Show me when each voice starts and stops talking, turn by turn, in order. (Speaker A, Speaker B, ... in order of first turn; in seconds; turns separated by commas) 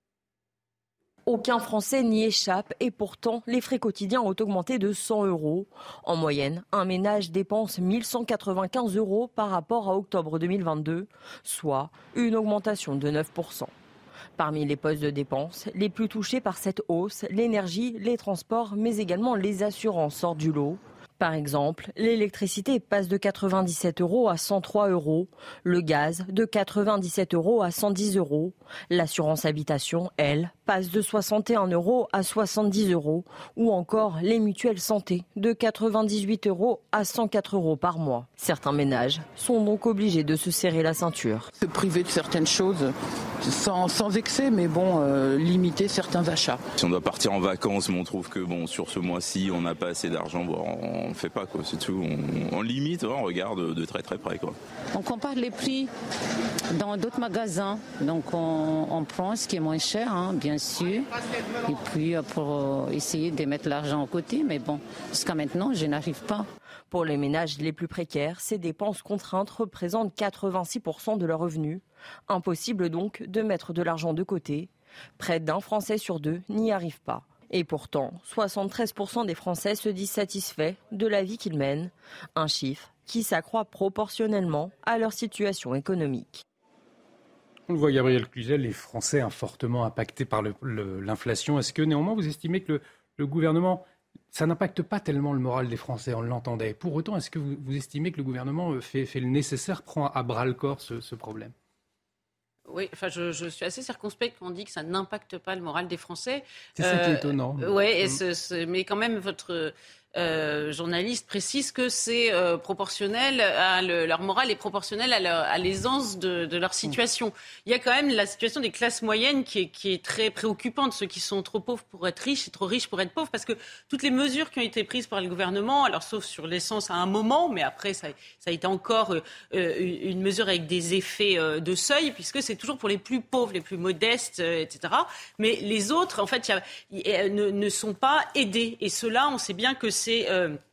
Speaker A: 1.3-13.7, Speaker A: 14.4-41.5, Speaker B: 41.6-46.6, Speaker C: 46.8-54.6, Speaker D: 54.9-55.9, Speaker D: 56.7-61.1, Speaker D: 61.6-66.5, Speaker A: 66.9-86.4, Speaker E: 87.7-101.5, Speaker F: 102.7-140.6, Speaker E: 106.8-108.2